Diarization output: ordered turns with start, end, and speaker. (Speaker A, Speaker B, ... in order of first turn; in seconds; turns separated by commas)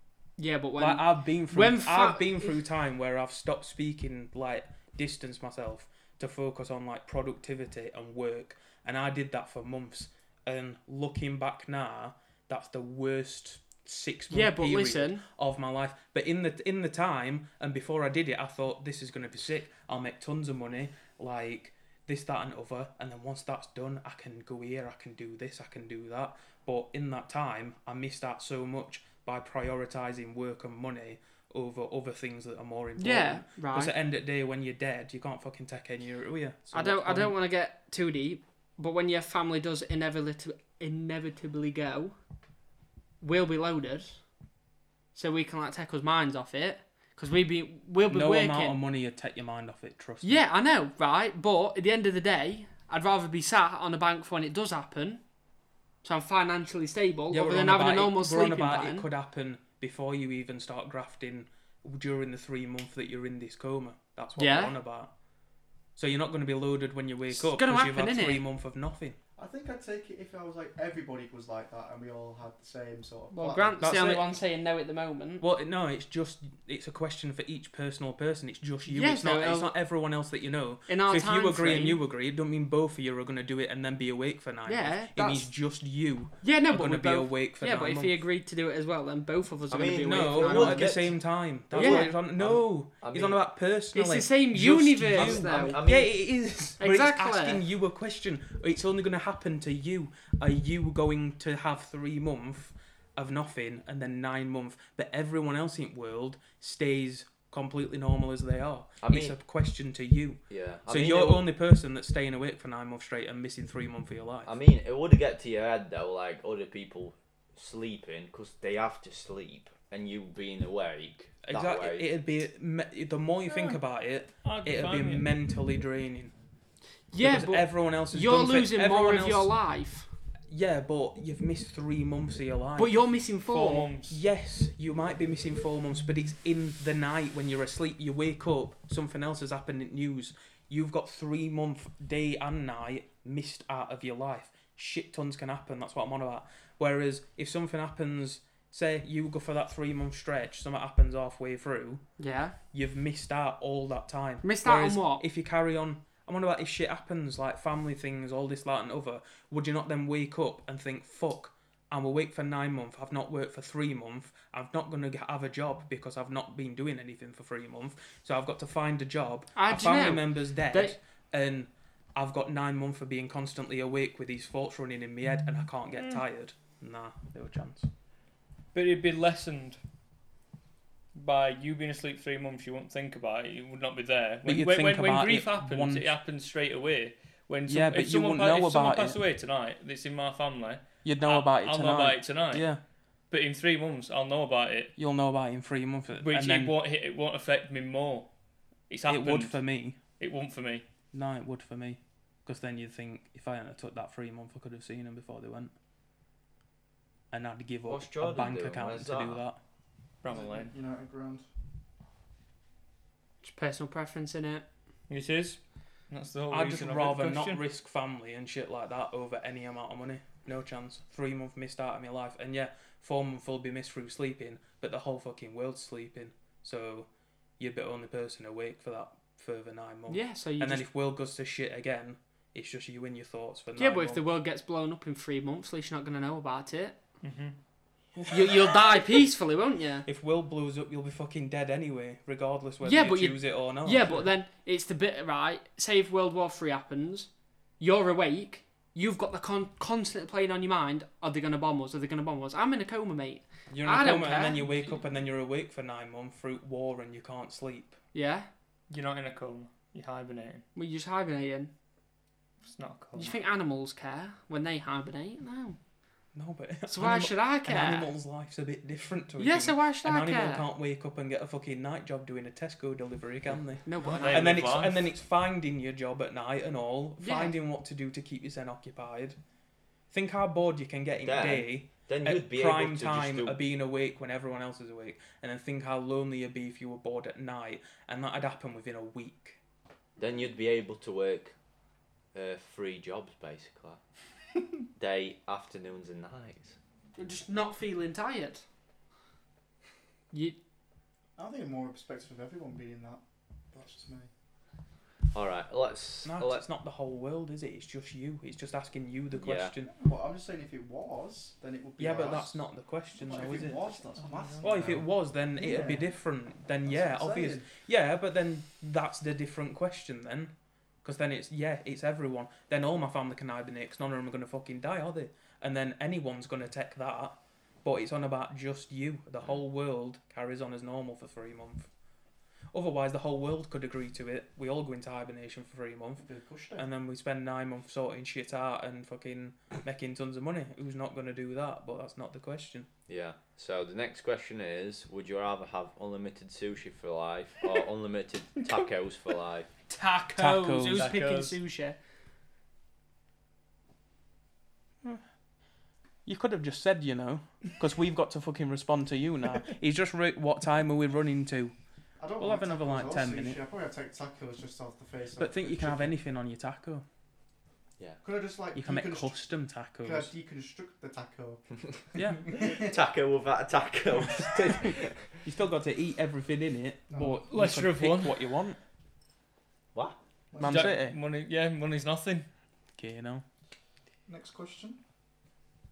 Speaker A: 0.4-2.6, Speaker B: 0.8-37.4, Speaker A: 14.3-15.2, Speaker A: 33.0-33.9, Speaker A: 36.7-42.2, Speaker A: 43.2-44.2, Speaker A: 45.1-48.8, Speaker B: 48.1-50.4, Speaker A: 50.2-55.2, Speaker A: 56.0-59.1, Speaker B: 57.3-65.1, Speaker A: 64.4-64.8, Speaker B: 66.0-69.2, Speaker A: 67.3-68.4, Speaker C: 69.4-73.8, Speaker A: 73.3-75.5, Speaker B: 73.8-74.4, Speaker B: 75.4-88.2, Speaker A: 78.9-79.7, Speaker A: 80.9-82.0, Speaker A: 84.7-85.5, Speaker A: 86.4-91.0, Speaker D: 89.7-93.4, Speaker B: 90.0-114.6, Speaker A: 91.7-92.1, Speaker A: 93.9-95.8, Speaker D: 95.2-96.2, Speaker A: 96.8-97.6, Speaker D: 109.0-109.4, Speaker D: 110.5-111.5, Speaker D: 114.5-122.1, Speaker B: 121.4-126.3, Speaker E: 123.5-123.8, Speaker E: 124.4-125.3, Speaker A: 127.1-130.1, Speaker B: 127.2-129.5, Speaker B: 130.5-133.0, Speaker A: 132.8-133.9, Speaker E: 133.4-134.2, Speaker B: 134.1-152.0, Speaker A: 152.2-152.6, Speaker B: 152.7-177.9, Speaker A: 154.4-155.2, Speaker A: 169.6-171.0, Speaker E: 175.9-176.2, Speaker E: 178.7-179.8, Speaker E: 181.1-192.7, Speaker B: 184.4-186.2, Speaker B: 187.7-189.2, Speaker B: 191.0-192.8, Speaker E: 193.3-195.0, Speaker B: 195.0-196.8, Speaker E: 196.2-198.3, Speaker E: 198.9-199.6, Speaker B: 199.1-200.0, Speaker E: 200.2-200.9, Speaker B: 201.1-205.7, Speaker B: 207.3-209.6, Speaker D: 207.9-209.4, Speaker E: 210.2-210.7, Speaker C: 210.3-211.5, Speaker A: 213.4-214.7, Speaker E: 215.1-217.6, Speaker B: 216.5-234.3, Speaker A: 230.1-230.9, Speaker A: 233.8-237.0, Speaker E: 237.2-237.6, Speaker B: 238.2-239.0, Speaker A: 238.3-240.1, Speaker B: 240.1-244.3, Speaker A: 242.8-255.0, Speaker B: 253.7-258.0, Speaker A: 258.1-258.5, Speaker E: 258.9-260.6, Speaker A: 260.8-261.7, Speaker E: 262.6-263.4, Speaker A: 263.2-265.8, Speaker B: 266.3-279.4, Speaker A: 266.9-268.1, Speaker A: 269.4-270.7, Speaker A: 273.9-274.7, Speaker E: 274.0-275.1, Speaker A: 277.2-277.6, Speaker B: 280.1-289.6, Speaker D: 281.2-283.6, Speaker D: 290.2-291.6, Speaker D: 292.3-294.0, Speaker D: 295.0-296.8, Speaker A: 297.2-298.6, Speaker A: 300.3-300.6, Speaker C: 301.4-303.2, Speaker C: 303.7-304.3, Speaker D: 305.3-306.6, Speaker B: 306.2-309.9, Speaker D: 309.3-309.7, Speaker C: 309.9-315.0, Speaker B: 312.0-331.9, Speaker E: 314.2-314.6, Speaker C: 315.6-316.1, Speaker C: 316.9-317.7, Speaker B: 332.7-336.2, Speaker C: 336.2-336.9, Speaker B: 336.8-342.9, Speaker D: 343.1-349.7, Speaker E: 348.6-348.9, Speaker A: 349.9-352.0, Speaker B: 350.4-351.2, Speaker E: 350.9-351.6, Speaker B: 356.2-361.8, Speaker C: 362.2-366.2, Speaker B: 362.4-363.6, Speaker B: 365.4-367.0, Speaker C: 368.2-369.4, Speaker B: 368.7-370.3, Speaker C: 370.0-371.7, Speaker B: 372.1-372.6, Speaker C: 372.5-373.0, Speaker D: 372.6-375.4, Speaker B: 375.4-378.8, Speaker C: 377.1-377.4, Speaker E: 377.5-378.6, Speaker C: 380.5-381.0, Speaker E: 380.6-382.5, Speaker B: 380.6-381.2, Speaker B: 383.0-383.4, Speaker C: 384.3-385.0